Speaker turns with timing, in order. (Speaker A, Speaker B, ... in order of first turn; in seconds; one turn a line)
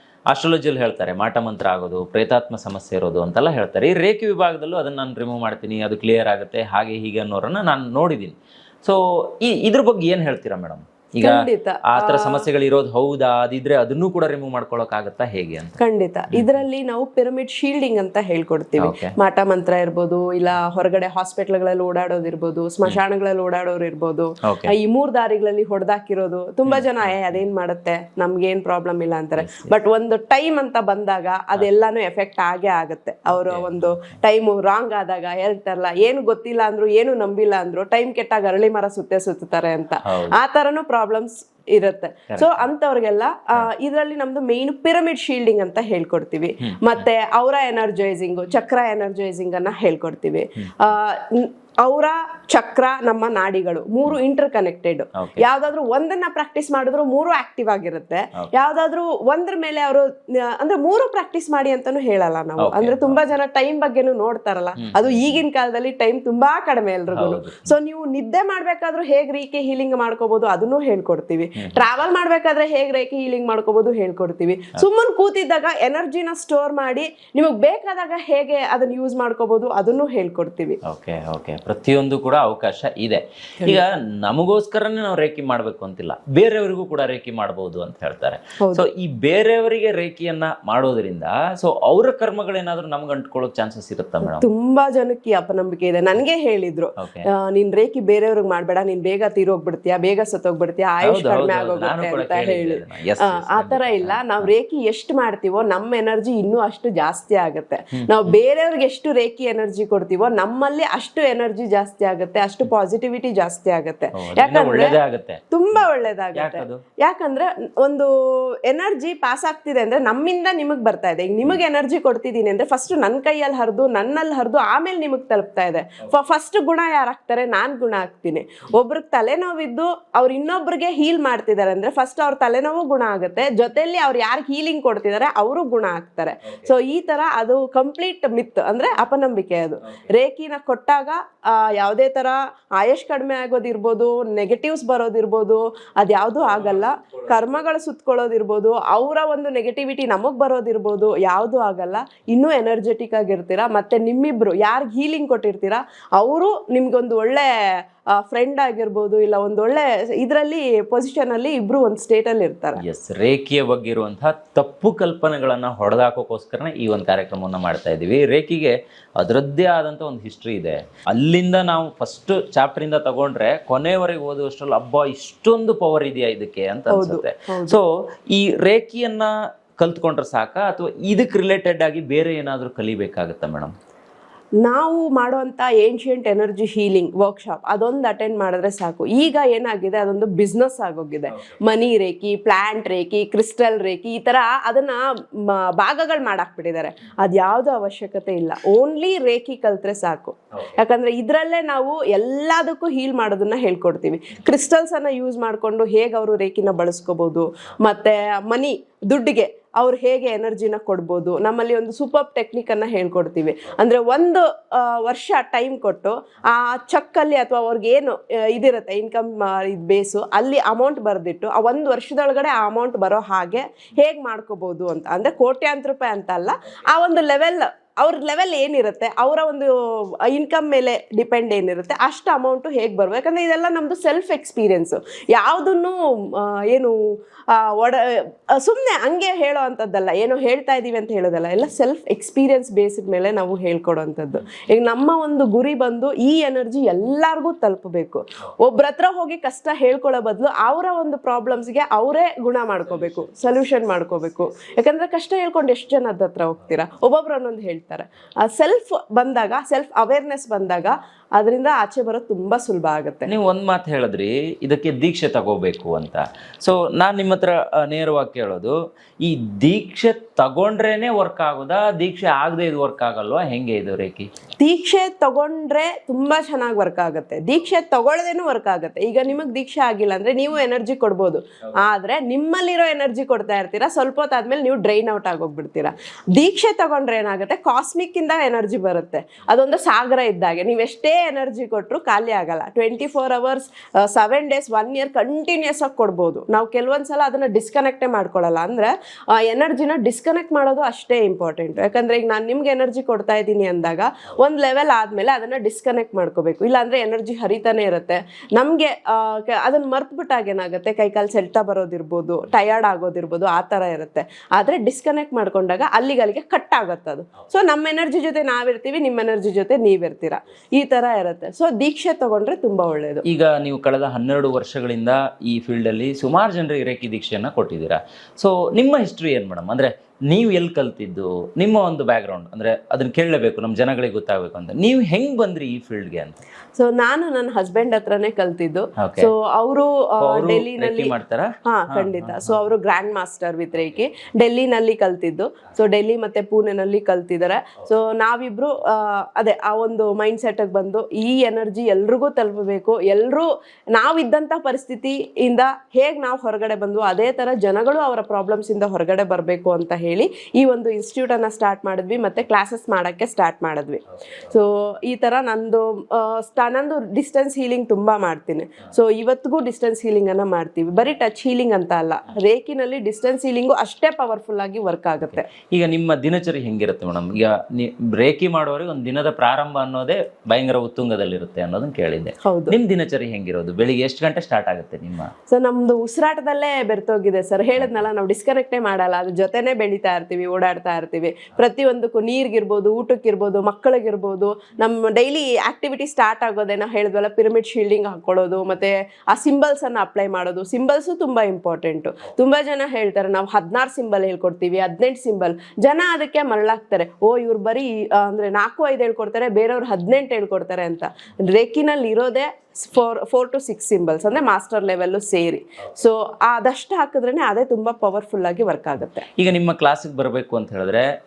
Speaker A: 0.3-15.8
Speaker B: 11.2-12.5
Speaker B: 15.8-80.8
Speaker A: 18.8-19.1
Speaker A: 24.4-24.8
Speaker A: 26.7-27.1
Speaker A: 29.4-29.7
Speaker A: 33.3-33.9
Speaker A: 40.1-40.3
Speaker A: 42.3-42.6
Speaker A: 55.2-55.5
Speaker A: 62.6-63.2
Speaker A: 64.8-65.4
Speaker A: 67.1-67.7
Speaker A: 80.8-94.5
Speaker B: 88.6-88.8
Speaker B: 94.2-115.0
Speaker A: 97.0-97.3
Speaker A: 101.0-104.5
Speaker A: 114.1-116.8
Speaker B: 115.5-157.5
Speaker A: 146.4-147.4
Speaker B: 158.1-162.8
Speaker A: 162.8-183.7
Speaker B: 176.9-177.8
Speaker B: 184.6-263.3
Speaker A: 263.3-274.3
Speaker B: 274.6-323.2
Speaker A: 323.3-336.4
Speaker B: 336.8-375.5
Speaker A: 339.0-339.3
Speaker A: 340.2-342.5
Speaker A: 375.3-385.3
Speaker B: 382.4-382.8
Speaker B: 385.5-419.3
Speaker A: 419.4-421.1